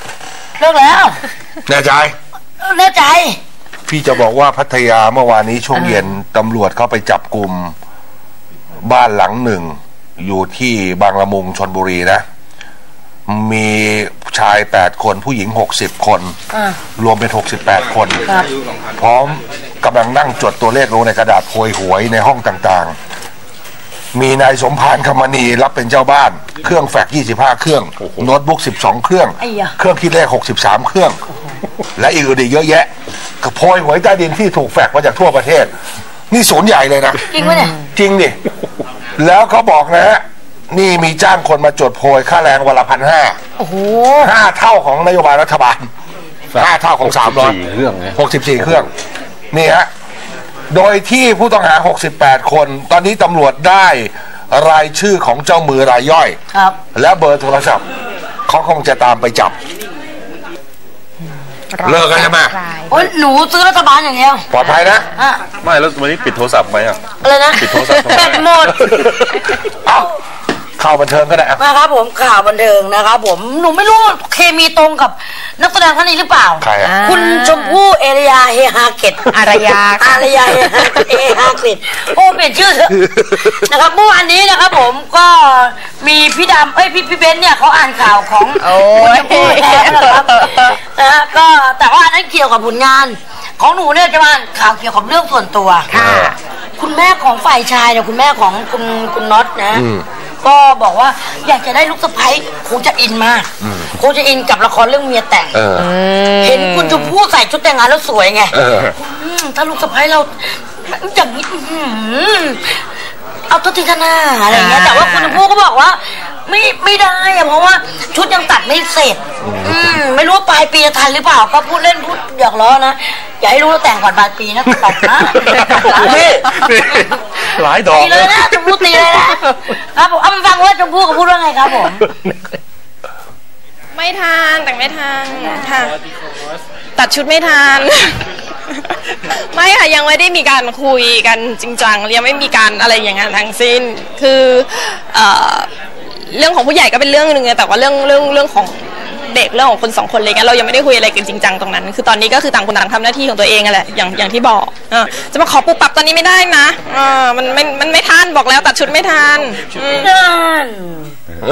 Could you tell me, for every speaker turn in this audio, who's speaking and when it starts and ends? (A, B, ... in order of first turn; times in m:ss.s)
0:00.6-0:01.2 A
0:01.7-0:02.1 B
0:02.6-0:03.4 A
0:03.9-0:07.7 B
0:05.7-0:06.1 C
0:08.8-0:12.2 B
0:13.3-0:16.4 B
0:16.5-0:16.8 A
0:17.0-0:18.2 B
0:19.0-0:23.0 B
0:24.1-0:31.2 B
0:28.0-0:28.3 D
0:29.4-0:29.8 A
0:32.0-0:32.9 B
0:33.4-0:35.7 B
0:36.3-0:37.2 B
0:37.3-0:37.8 A
0:37.4-0:37.7 C
0:37.9-0:38.4 B
0:39.2-0:43.4 B
0:43.6-0:44.3 A
0:44.2-0:45.8 B
0:46.5-0:48.2 D
0:46.5-0:47.6 B
0:48.1-0:48.9 B
0:49.5-0:49.9 B
0:50.7-0:56.4 B
0:56.5-0:56.8 A
0:56.9-0:57.8 B
0:58.5-0:59.6 B
1:01.7-1:03.0 C
1:01.8-1:02.6 B
1:02.9-1:04.5 A
1:04.5-1:05.0 B
1:04.6-1:05.0 C
1:05.1-1:05.4 A
1:05.6-1:07.0 D
1:07.2-1:09.2 A
1:07.5-1:08.4 D
1:09.7-1:10.1 B
1:10.8-1:11.6 B
1:11.6-1:19.3 A
1:16.6-1:17.0 B
1:16.8-1:17.8 C
1:19.3-1:21.2 C
1:20.0-1:35.9 A
1:28.6-1:30.6 C
1:35.9-1:36.3 C
1:35.9-1:36.3 B
1:36.8-1:39.8 A
1:39.7-1:40.0 B
1:40.4-1:45.6 A
1:45.5-1:45.9 B
1:45.8-1:47.1 C
1:46.4-1:52.8 A
1:48.5-1:48.9 B
1:53.5-2:06.5 A
1:54.5-1:55.4 C
2:05.5-2:09.2 D
2:07.9-2:12.0 A
2:14.0-2:15.9 E
2:17.0-2:18.2 E
2:19.5-2:25.7 E
2:26.3-2:40.0 E
2:39.8-2:41.1 A